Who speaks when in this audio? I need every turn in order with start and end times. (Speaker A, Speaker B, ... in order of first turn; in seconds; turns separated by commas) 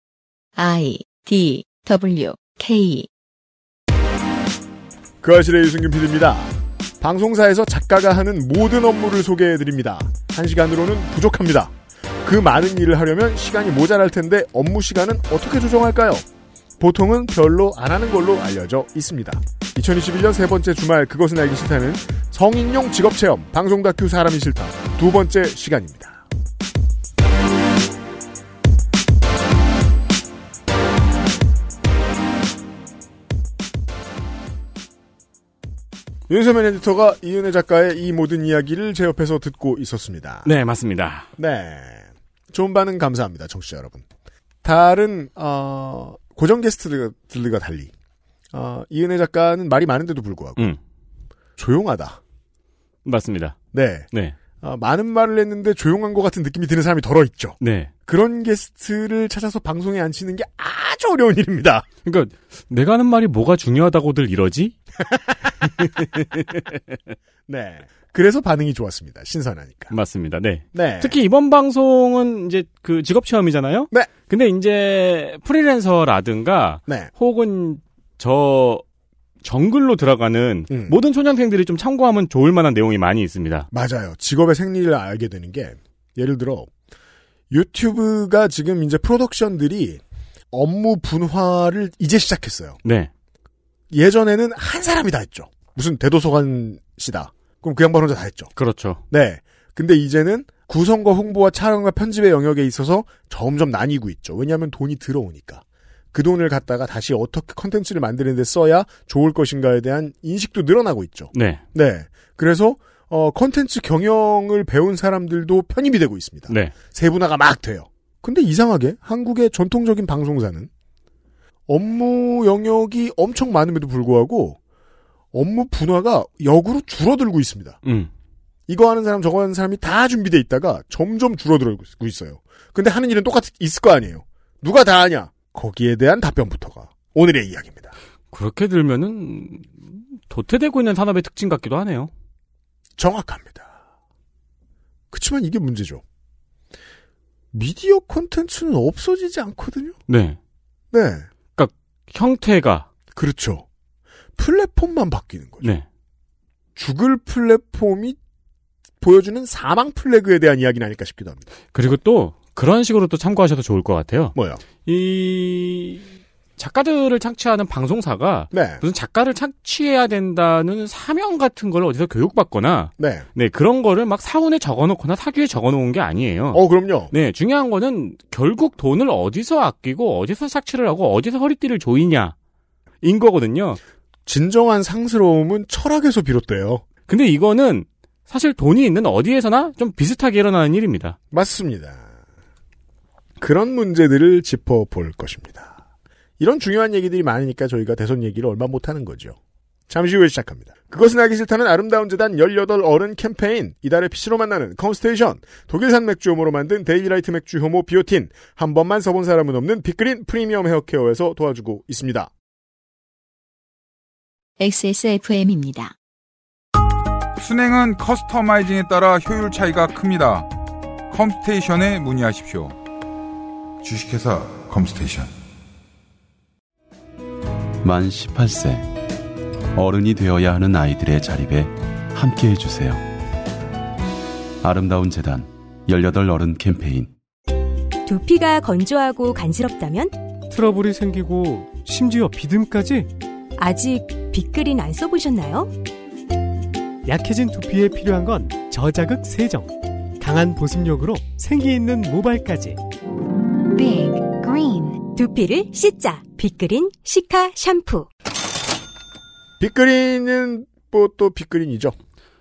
Speaker A: 0.6-3.1, Speaker B: 5.2-16.2, Speaker B: 16.8-26.2, Speaker B: 36.3-40.5, Speaker C: 40.4-41.3, Speaker B: 41.4-44.0, Speaker B: 44.6-47.9, Speaker B: 48.5-50.7, Speaker B: 51.6-52.2, Speaker C: 53.0-53.6, Speaker B: 53.7-54.1, Speaker B: 54.6-61.9, Speaker C: 57.6-57.9, Speaker C: 62.0-64.7, Speaker B: 65.0-66.2, Speaker C: 65.6-66.2, Speaker B: 67.5-69.9, Speaker C: 69.9-78.8, Speaker B: 70.7-71.2, Speaker C: 79.4-83.7, Speaker B: 80.7-81.0, Speaker B: 83.7-86.7, Speaker B: 87.5-92.8, Speaker C: 92.8-93.1, Speaker B: 93.9-98.5, Speaker C: 98.5-99.0, Speaker B: 99.1-120.7, Speaker C: 111.3-111.6, Speaker C: 116.5-116.7, Speaker B: 121.7-124.6, Speaker B: 125.3-127.8, Speaker C: 127.8-128.1, Speaker B: 128.7-137.9, Speaker C: 138.3-142.1, Speaker B: 143.0-143.7, Speaker B: 145.1-146.0, Speaker B: 147.5-150.0, Speaker C: 150.1-150.4, Speaker B: 150.9-151.3, Speaker C: 151.6-152.9, Speaker B: 153.1-153.7, Speaker B: 154.4-155.7, Speaker B: 156.8-158.2, Speaker B: 159.0-161.4, Speaker C: 161.7-166.1, Speaker B: 164.3-164.6, Speaker C: 166.6-182.3, Speaker B: 168.5-168.8, Speaker B: 173.0-173.2, Speaker B: 176.5-177.1, Speaker C: 183.0-183.8, Speaker B: 184.2-186.8, Speaker C: 187.1-191.2, Speaker B: 191.3-192.0, Speaker B: 193.4-195.8, Speaker B: 196.4-199.4, Speaker B: 199.9-212.3, Speaker A: 214.6-215.9, Speaker D: 217.4-220.5, Speaker D: 221.1-222.8, Speaker D: 223.8-225.3, Speaker E: 227.8-228.9, Speaker E: 229.7-233.0, Speaker E: 234.6-237.1, Speaker F: 238.1-240.2, Speaker G: 240.5-243.1, Speaker F: 243.6-245.7, Speaker G: 247.0-252.8, Speaker A: 253.7-255.0, Speaker F: 255.1-258.1, Speaker B: 259.6-261.9